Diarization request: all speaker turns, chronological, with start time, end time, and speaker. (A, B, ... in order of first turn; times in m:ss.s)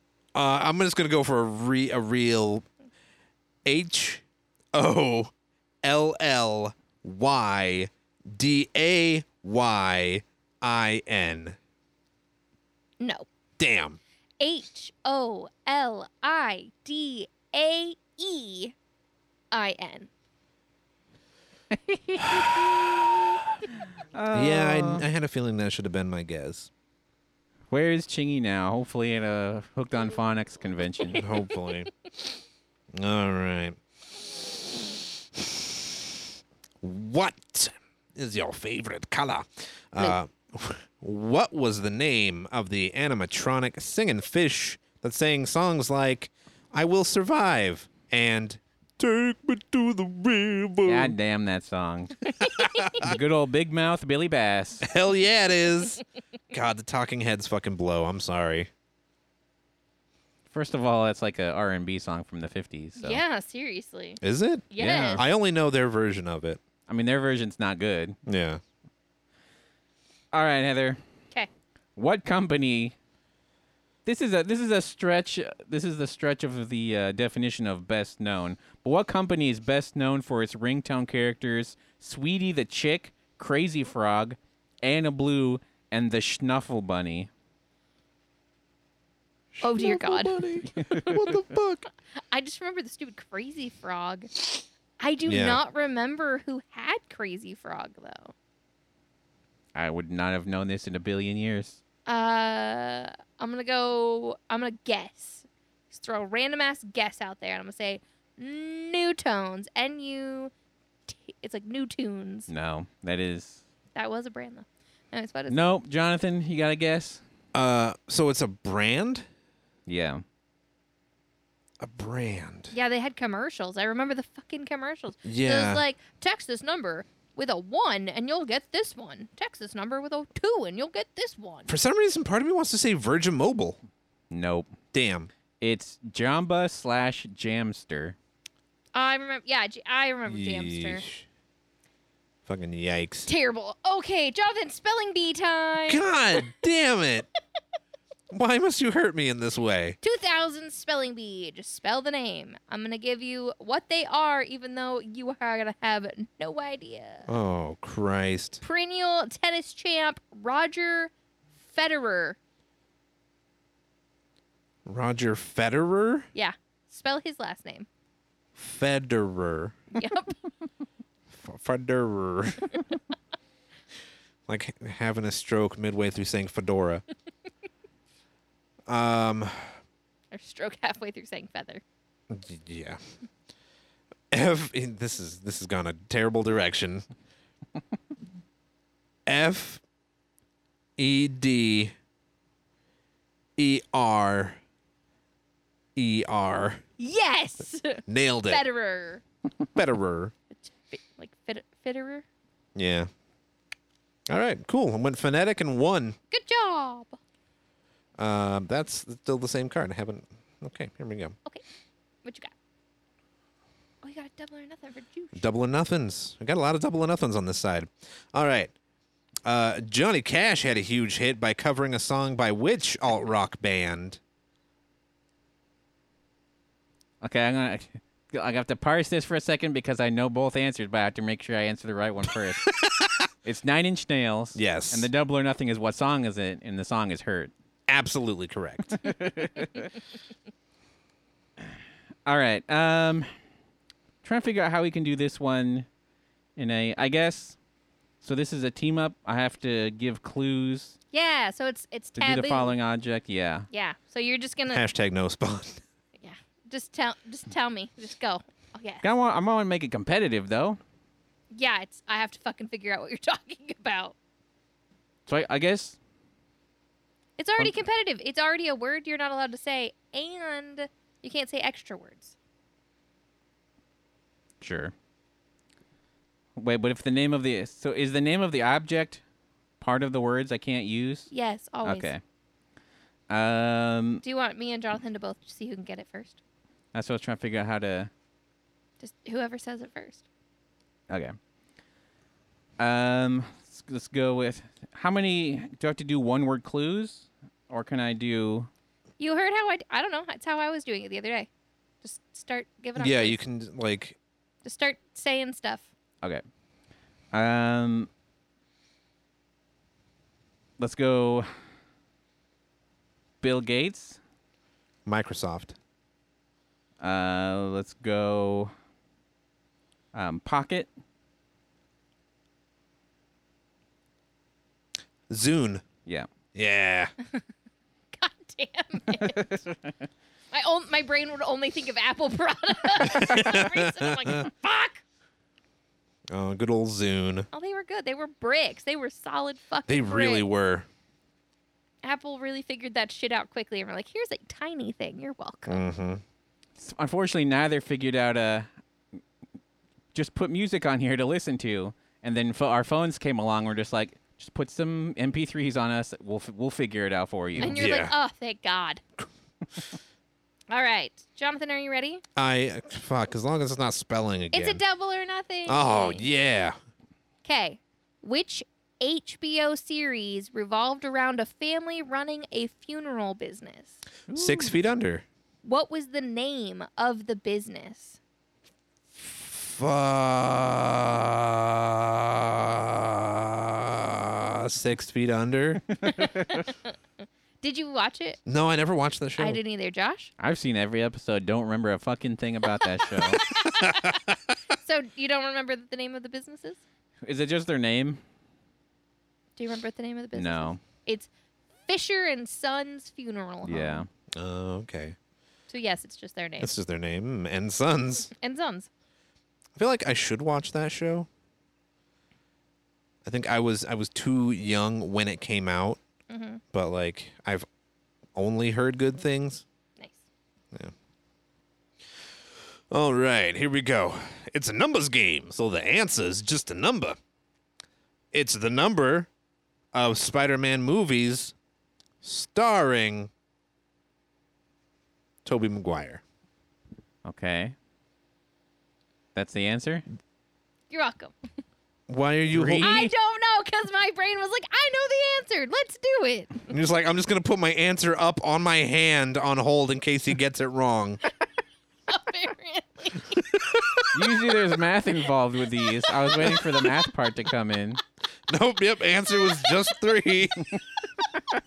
0:00.3-0:02.6 A
0:03.6-0:05.3 A
0:05.8-0:11.6 A
0:13.0-0:13.3 B
0:13.6-0:14.0 A
0:14.4-0:18.8 B
0:19.5-0:20.1 B
0:22.0-0:22.6 B
0:22.2-0:23.0 C
0:23.8-0:25.0 C
0:24.3-0:26.7 A
0:27.7-0:31.3 C
0:31.1-0:31.9 A
0:32.9-0:33.8 A
0:35.3-0:36.2 A
0:36.8-0:51.2 A
0:50.9-0:52.3 C
0:52.4-0:53.2 A
0:52.4-0:52.9 B
0:52.9-0:54.9 C
0:54.8-0:58.7 A
1:00.5-1:03.2 C
1:03.0-1:04.2 B
1:04.2-1:06.6 A
1:04.7-1:05.2 B
1:04.8-1:05.2 C
1:06.9-1:08.2 C
1:08.3-1:08.6 A
1:10.3-1:11.0 C
1:12.0-1:12.9 C
1:14.0-1:27.3 C
1:29.5-1:31.9 A
1:29.6-1:31.2 B
1:32.3-1:38.3 B
1:35.3-1:35.6 A
1:39.8-1:41.8 C
1:42.1-1:50.5 B
1:51.1-1:52.5 B
1:52.5-1:53.6 C
1:54.0-1:55.6 B
1:55.5-1:57.2 C
1:57.5-1:59.3 A
1:59.9-2:00.2 C
2:01.8-2:02.7 A
2:02.7-2:11.7 B
2:05.2-2:05.8 A
2:11.7-2:13.8 A
2:14.3-2:14.8 C
2:14.9-2:15.3 A
2:15.6-2:18.2 C
2:18.9-2:21.1 B
2:20.3-2:21.2 A
2:22.5-2:23.3 A
2:23.3-2:26.5 B
2:25.9-2:27.3 A
2:28.3-2:30.0 A
2:30.0-2:37.3 B
2:37.3-2:38.6 A
2:38.6-2:41.1 B
2:41.7-2:42.4 B
2:44.9-2:46.3 A
2:46.3-2:47.9 B
2:48.6-2:49.8 A
2:49.9-2:50.4 B
2:51.3-2:52.8 A
2:54.5-2:57.0 A
2:58.9-2:59.7 A
3:00.3-3:01.8 B
3:02.3-3:03.0 A
3:04.3-3:07.0 A
3:09.3-3:09.8 A
3:11.0-3:11.9 A
3:13.6-3:14.6 A
3:16.0-3:16.8 A
3:17.0-3:19.2 B
3:18.1-3:18.6 A
3:19.8-3:20.3 A
3:20.5-3:22.3 B
3:22.8-3:23.1 A
3:24.3-3:26.2 A
3:26.3-3:27.2 B
3:28.2-3:31.4 A
3:32.2-3:32.5 B
3:34.0-3:35.5 B
3:35.4-3:38.7 A
3:39.4-3:44.2 A
3:47.2-3:52.8 C
3:52.7-3:53.2 A
3:53.4-3:57.5 C
3:54.6-3:55.1 A
3:57.9-3:59.0 A
3:58.8-3:59.9 C
4:02.3-4:03.3 C
4:04.2-4:05.9 C
4:06.6-4:07.6 C
4:08.2-4:11.0 C
4:11.1-4:12.7 B
4:12.2-4:13.7 C
4:13.7-4:14.8 B
4:14.7-4:15.8 A
4:16.2-4:19.0 B
4:19.0-4:20.8 C
4:21.5-4:24.2 B
4:25.3-4:26.0 C
4:27.4-4:32.3 B
4:34.6-4:34.9 C
4:36.6-4:39.2 C
4:39.8-4:41.3 C
4:41.3-4:42.1 B
4:41.8-4:42.2 C
4:43.3-4:44.2 C
4:44.2-4:46.4 B
4:46.9-4:48.1 C
4:49.0-4:50.2 B
4:51.1-4:51.4 C
4:52.8-4:58.7 C
4:59.2-5:01.5 B
5:02.0-5:03.4 B
5:03.0-5:04.2 A
5:04.6-5:05.9 B
5:07.3-5:08.1 C
5:10.8-5:11.5 C
5:13.4-5:14.2 C
5:15.1-5:15.8 A
5:17.0-5:18.7 C
5:20.1-5:20.9 C
5:25.3-5:25.8 A
5:26.5-5:27.1 A
5:28.1-5:29.6 B
5:29.2-5:29.7 C
5:30.5-5:35.0 B
5:33.1-5:34.5 A
5:36.3-5:37.5 A
5:37.5-5:40.5 B
5:39.9-5:40.9 A
5:42.0-5:45.8 B
5:45.7-5:46.2 A
5:46.8-5:48.7 C
5:50.1-5:57.9 C
5:57.6-5:59.0 B
5:57.6-5:58.1 A
6:00.7-6:02.2 B
6:02.4-6:04.8 A
6:04.5-6:06.3 B
6:05.7-6:06.8 A
6:07.4-6:14.0 B
6:14.3-6:14.7 C
6:14.3-6:15.2 A
6:15.6-6:18.2 B
6:19.2-6:25.8 A
6:26.0-6:26.9 B
6:26.2-6:26.6 C
6:27.6-6:28.4 B
6:28.5-6:29.6 A
6:29.4-6:30.3 B
6:30.4-6:33.4 C
6:32.8-6:34.2 B
6:33.8-6:34.4 A
6:34.8-6:36.8 B
6:37.2-6:38.2 C
6:39.6-6:41.3 B
6:40.4-6:40.8 C
6:41.9-6:44.1 B
6:43.6-6:44.1 C
6:44.3-6:45.2 A
6:45.7-6:46.7 B
6:46.6-6:48.3 A
6:48.3-6:48.9 B
6:49.8-6:51.3 A
6:53.2-6:56.0 A
6:56.3-6:56.6 B
6:56.7-6:57.7 A
6:58.4-6:59.6 A
7:02.9-7:07.2 A
7:08.3-7:09.3 A
7:09.9-7:11.5 A
7:12.2-7:13.3 A
7:15.4-7:16.2 A
7:17.2-7:17.8 C
7:19.4-7:20.0 C
7:20.9-7:21.3 B
7:22.1-7:22.9 A
7:22.5-7:23.1 C
7:22.8-7:26.7 B
7:26.7-7:31.2 A
7:32.1-7:34.1 B
7:33.5-7:34.2 A
7:34.1-7:38.0 C
7:36.0-7:37.0 B
7:38.5-7:40.8 A
7:39.5-7:39.9 B